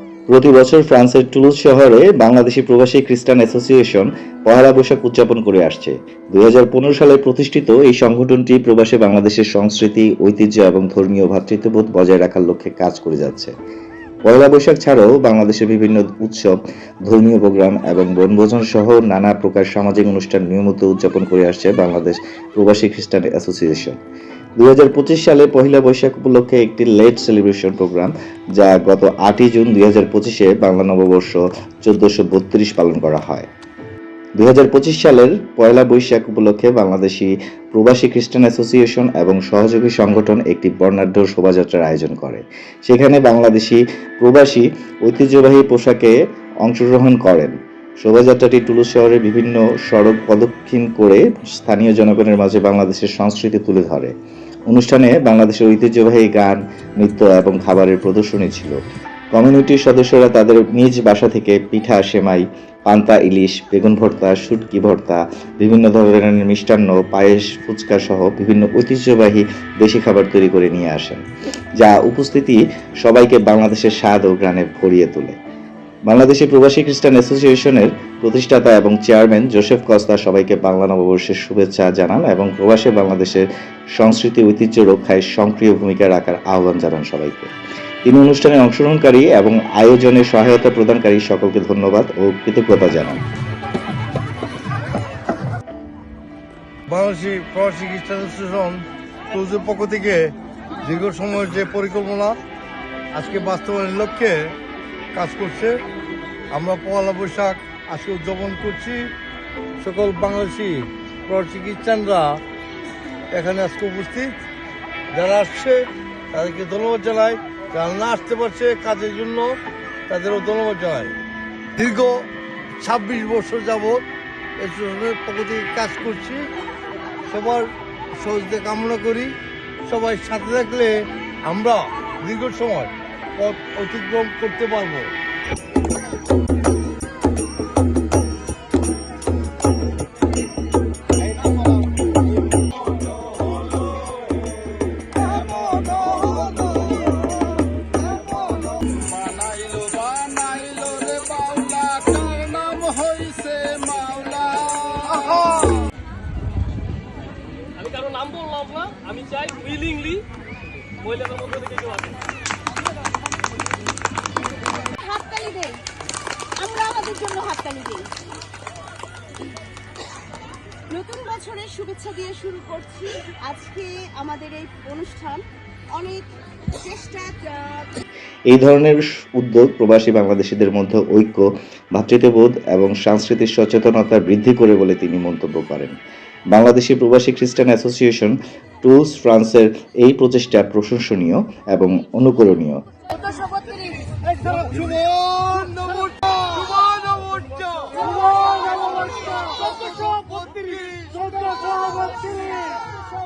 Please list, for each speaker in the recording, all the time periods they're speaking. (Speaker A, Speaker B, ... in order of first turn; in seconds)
Speaker A: 0.3-13.5, 14.2-24.0, 24.6-33.5, 34.4-54.1, 54.7-58.8, 59.3-71.2, 71.8-75.4, 76.0-87.5, 88.0-93.2, 178.5-185.9, 186.5-192.8
Speaker B: 96.9-102.4, 103.1-104.5, 105.1-105.8, 106.5-109.1, 109.8-112.4, 113.3-114.4, 115.1-121.2, 121.8-122.3, 122.8-124.0, 124.6-126.5, 127.3-129.3, 129.8-135.1, 195.4-195.8, 197.2-197.8, 200.5-200.8
Speaker C: 148.9-155.3
Speaker D: 157.8-160.2, 161.0-162.2
Speaker E: 164.9-165.8, 166.6-168.1, 170.9-175.4, 175.9-178.0, 196.7-197.1, 197.9-200.2, 201.0-202.8